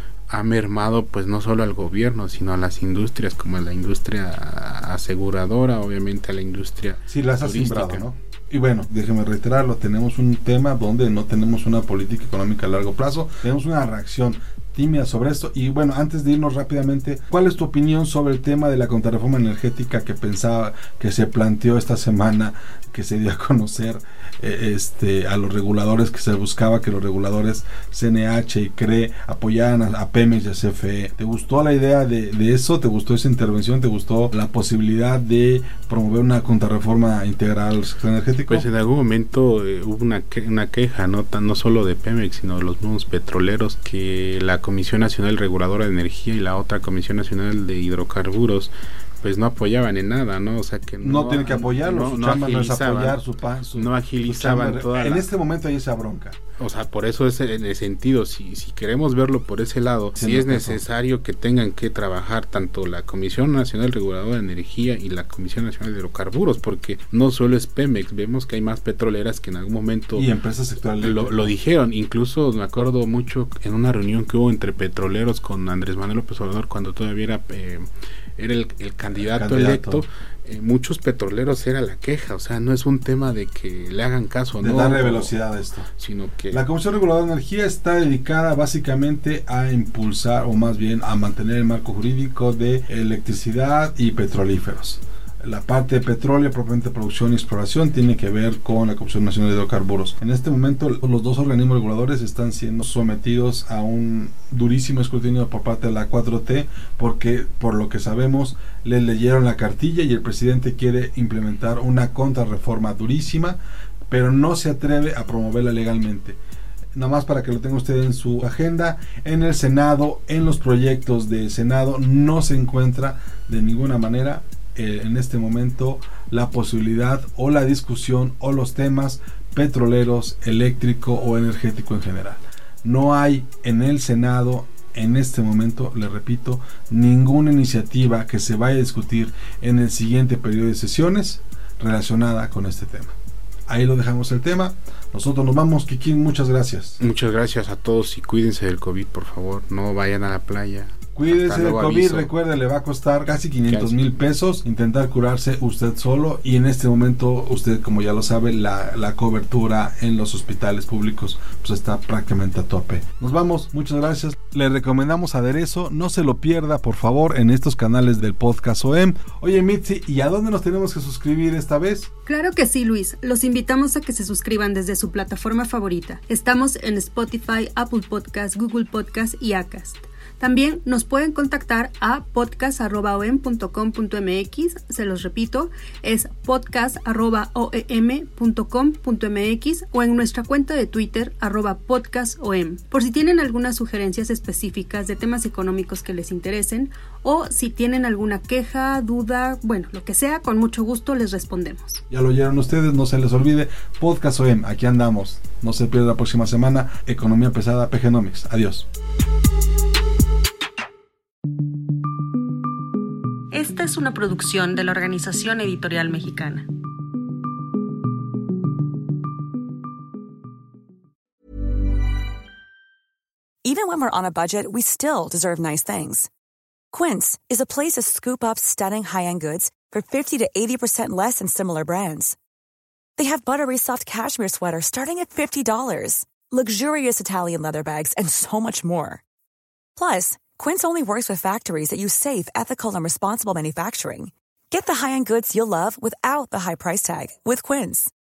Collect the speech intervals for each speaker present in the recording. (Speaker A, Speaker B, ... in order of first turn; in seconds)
Speaker A: 0.3-8.0, 38.5-53.2, 53.7-55.2, 56.6-70.3, 71.0-77.8, 78.4-85.3, 86.0-86.6, 147.0-152.3, 153.7-154.1
Speaker B: 7.1-38.6, 51.0-56.4, 60.2-60.8, 70.1-71.5, 79.1-80.0, 84.6-85.9, 86.5-116.4, 116.9-143.1, 143.7-147.0, 151.1-172.1, 202.1-208.9
Speaker C: 172.2-202.0, 213.5-216.7
Speaker D: 223.6-226.3, 226.9-232.3, 233.2-239.2, 240.0-248.1